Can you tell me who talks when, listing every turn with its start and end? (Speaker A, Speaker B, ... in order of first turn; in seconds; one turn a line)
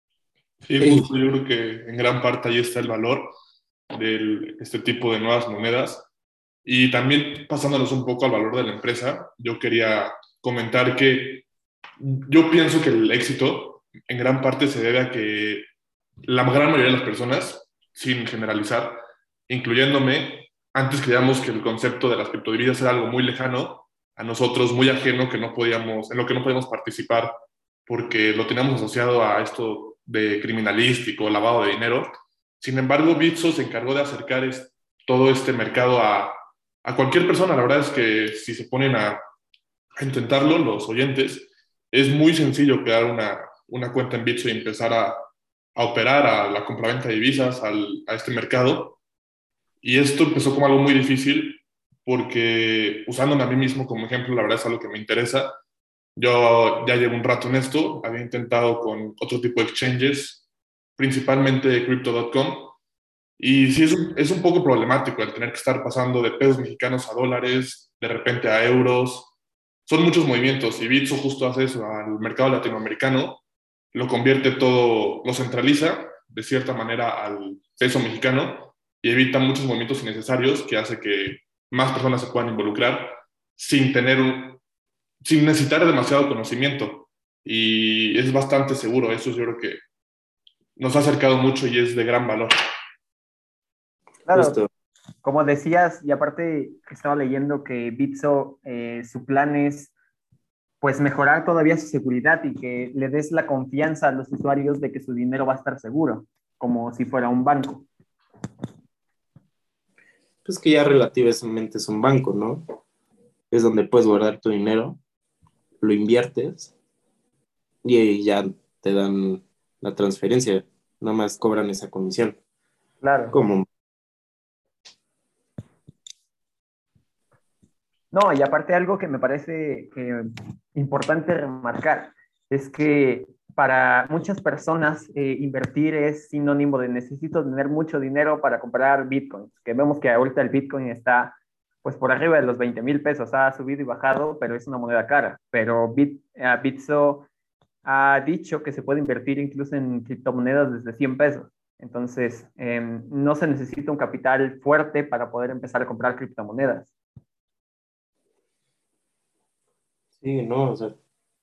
Speaker A: 0.6-3.3
Speaker B: 0.8-1.1
Speaker A: 3.9-6.1
Speaker A: 6.7-11.4
Speaker A: 12.0-15.7
Speaker A: 16.3-18.9
Speaker A: 19.5-27.3
Speaker A: 27.9-32.1
Speaker A: 32.6-39.2
Speaker A: 40.0-45.2
Speaker A: 45.8-49.0
Speaker A: 49.8-55.5
Speaker A: 56.2-60.4
Speaker A: 61.0-62.8
Speaker A: 63.4-69.3
Speaker A: 69.9-73.4
Speaker A: 73.9-84.6
Speaker A: 85.2-89.8
Speaker A: 90.8-92.5
Speaker C: 94.3-94.6
Speaker B: 94.3-94.7
Speaker C: 95.2-100.0
Speaker C: 100.8-107.9
Speaker B: 110.5-112.7
Speaker B: 113.5-115.0
Speaker B: 115.8-116.7
Speaker B: 117.8-122.4
Speaker C: 123.0-123.3
Speaker B: 123.3-123.7
Speaker C: 128.1-147.3
Speaker C: 147.8-156.9
Speaker B: 160.2-161.0